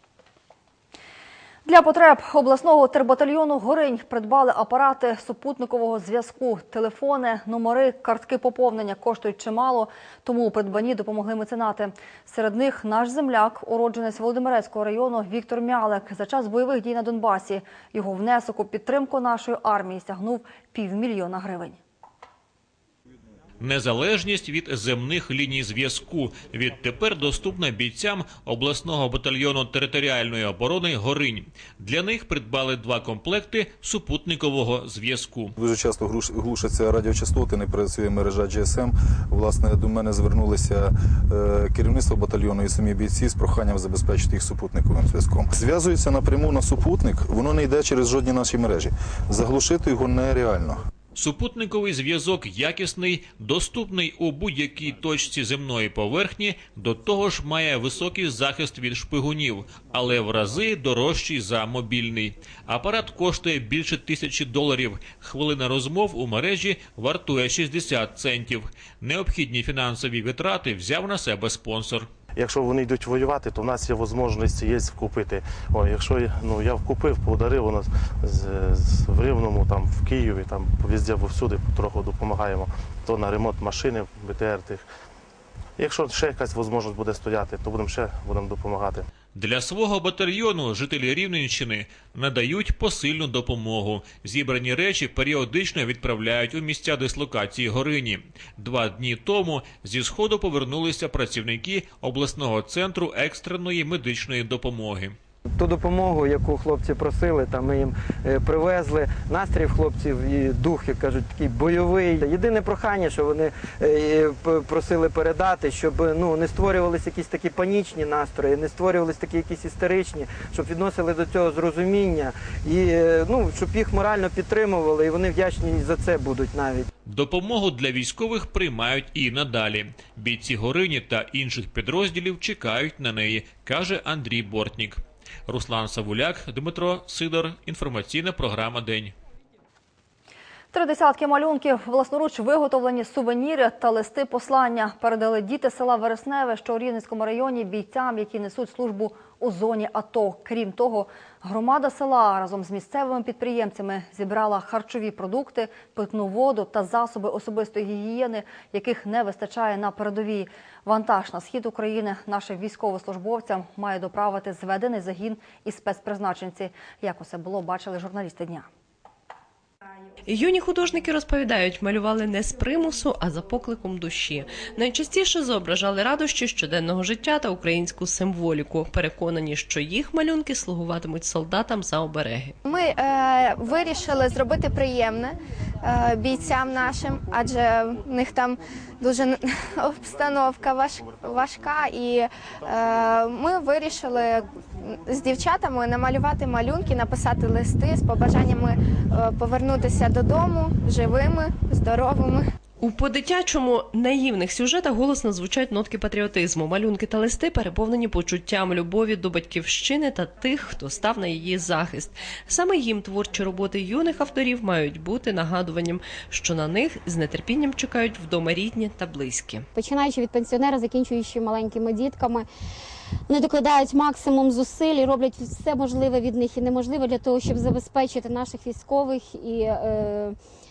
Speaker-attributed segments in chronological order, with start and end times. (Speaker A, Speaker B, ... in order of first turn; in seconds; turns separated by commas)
Speaker A: 1.6-21.8, Speaker B: 23.6-35.5, Speaker C: 35.6-50.8, Speaker B: 51.1-72.1, Speaker D: 72.3-84.8, Speaker D: 85.8-89.1, Speaker B: 89.3-105.2, Speaker E: 105.5-126.8, Speaker B: 127.1-139.1, Speaker A: 140.7-168.7, Speaker F: 170.3-182.5, Speaker G: 182.6-202.5, Speaker F: 202.8-219.7, Speaker H: 219.8-222.4, Speaker H: 223.3-230.3